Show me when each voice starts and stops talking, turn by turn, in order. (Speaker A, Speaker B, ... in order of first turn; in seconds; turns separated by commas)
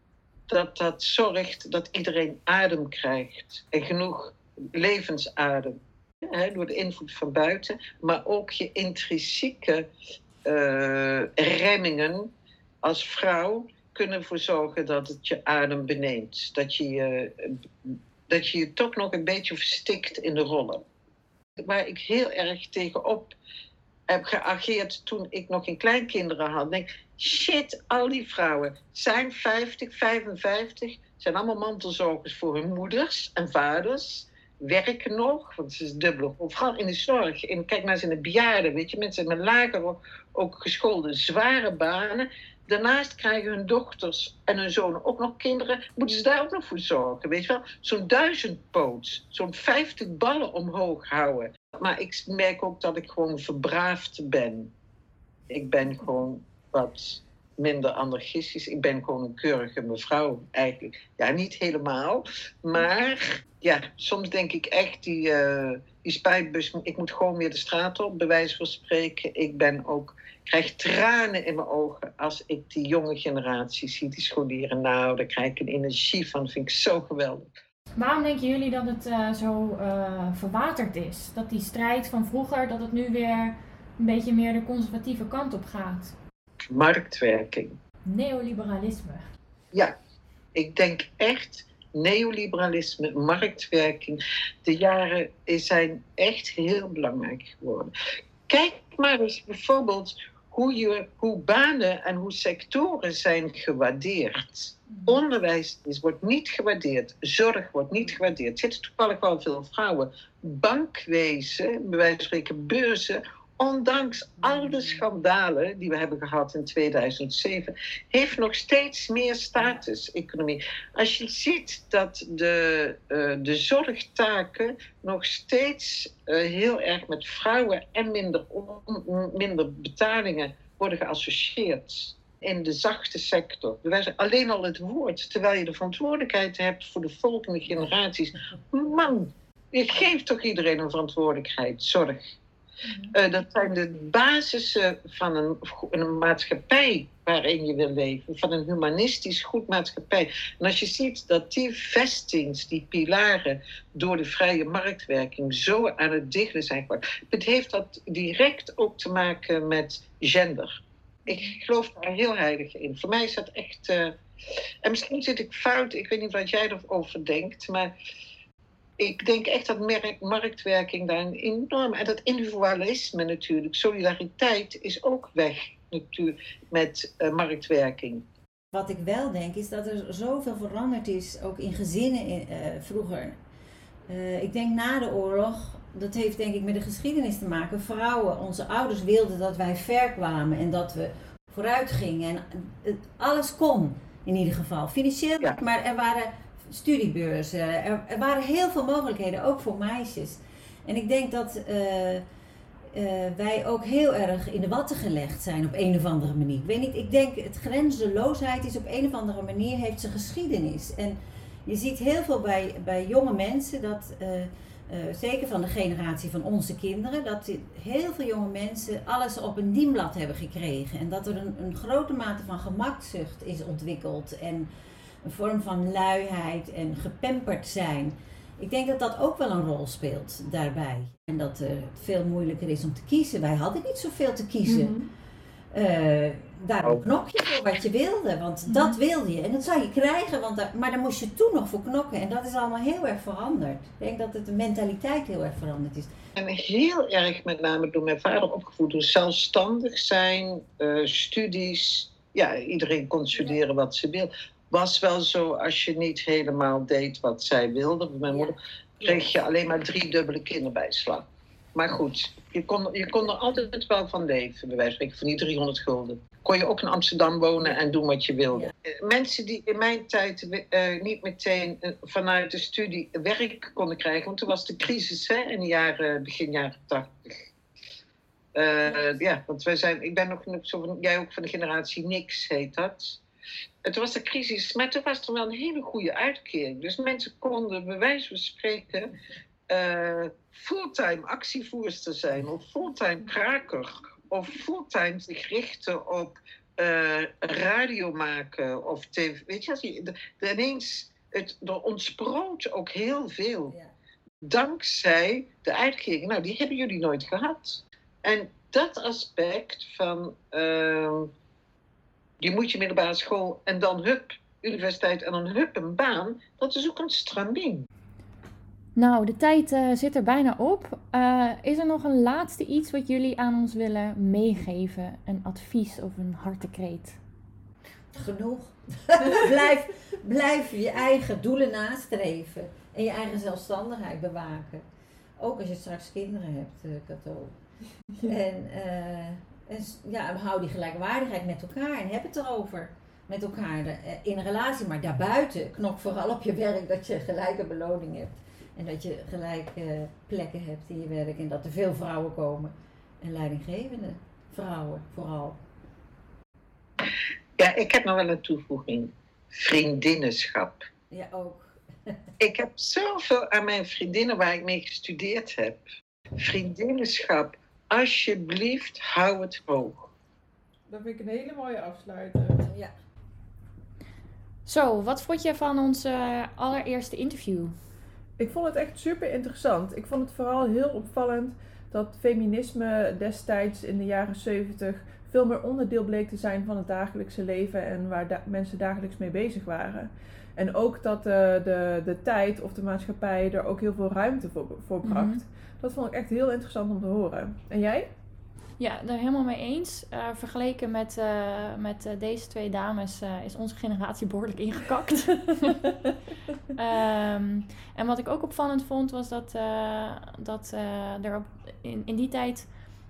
Speaker A: 0.5-9.9, Speaker A: 10.4-12.3, Speaker A: 12.8-20.8, Speaker A: 21.6-23.3, Speaker A: 24.1-54.7, Speaker A: 55.5-77.5, Speaker B: 78.0-86.2, Speaker A: 86.7-87.8, Speaker B: 88.0-89.2, Speaker A: 90.5-97.9, Speaker A: 98.5-142.3, Speaker C: 114.4-115.0, Speaker B: 142.9-143.1, Speaker A: 143.1-160.7, Speaker A: 161.3-164.1, Speaker B: 161.3-161.5, Speaker A: 164.8-167.9, Speaker A: 169.0-178.2, Speaker C: 178.7-183.4, Speaker C: 184.1-202.2, Speaker C: 202.9-224.7, Speaker C: 225.2-235.0, Speaker D: 234.7-235.1, Speaker C: 235.7-246.1, Speaker B: 238.7-239.0, Speaker A: 246.4-277.5, Speaker A: 278.6-283.2, Speaker A: 283.8-289.1, Speaker A: 289.7-303.8, Speaker A: 304.4-311.3, Speaker A: 312.4-317.9, Speaker B: 319.0-327.2, Speaker C: 328.1-334.9, Speaker C: 335.4-337.6, Speaker C: 338.2-355.6, Speaker A: 357.6-360.9, Speaker C: 361.1-362.2, Speaker A: 362.4-365.8, Speaker A: 366.4-370.1, Speaker D: 370.9-372.7, Speaker C: 372.6-372.9, Speaker B: 374.6-377.8, Speaker D: 378.4-398.1, Speaker B: 395.0-395.4, Speaker B: 398.8-405.9, Speaker B: 406.7-412.7